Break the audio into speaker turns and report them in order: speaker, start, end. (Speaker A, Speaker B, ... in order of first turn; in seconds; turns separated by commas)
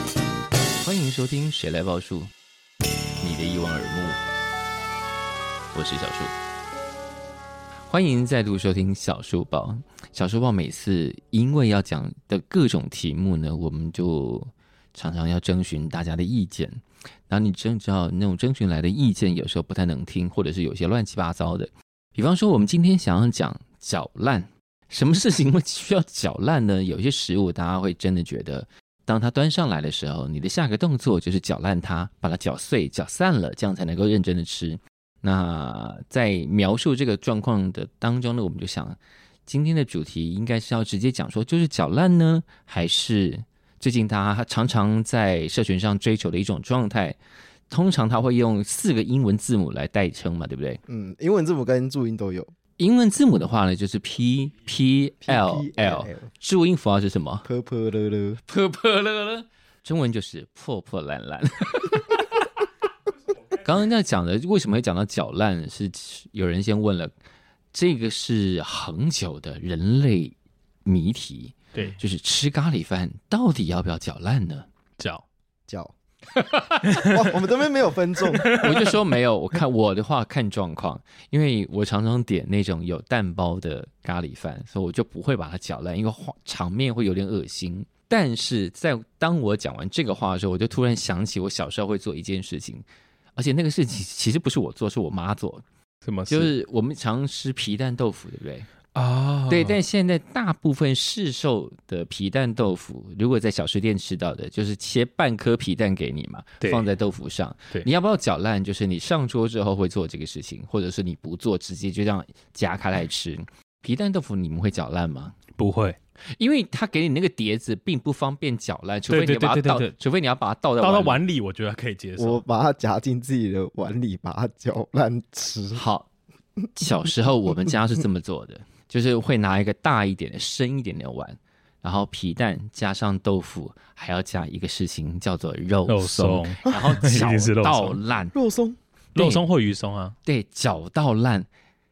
Speaker A: 0.8-2.3, Speaker A: 3.2-4.2, Speaker A: 5.7-6.4, Speaker A: 7.9-47.2, Speaker A: 47.7-50.8, Speaker B: 50.9-52.5, Speaker A: 52.8-57.5, Speaker B: 55.2-56.3, Speaker B: 57.5-58.4, Speaker A: 58.5-62.3, Speaker A: 63.5-67.1, Speaker A: 67.7-74.7, Speaker C: 75.0-75.2, Speaker B: 75.7-75.9, Speaker C: 76.8-77.2, Speaker B: 77.0-78.5, Speaker C: 78.3-78.7, Speaker A: 78.6-92.8, Speaker A: 93.4-95.6, Speaker C: 96.0-96.5, Speaker A: 96.3-98.7, Speaker C: 99.0-99.8, Speaker A: 99.5-115.4, Speaker C: 115.6-116.0, Speaker A: 116.4-121.2, Speaker C: 119.1-119.9, Speaker C: 120.8-122.4, Speaker B: 122.2-125.8, Speaker A: 125.7-126.1, Speaker A: 126.8-138.3, Speaker C: 135.9-138.0, Speaker B: 138.3-138.8, Speaker C: 139.2-140.2, Speaker A: 139.2-139.4, Speaker A: 140.2-141.5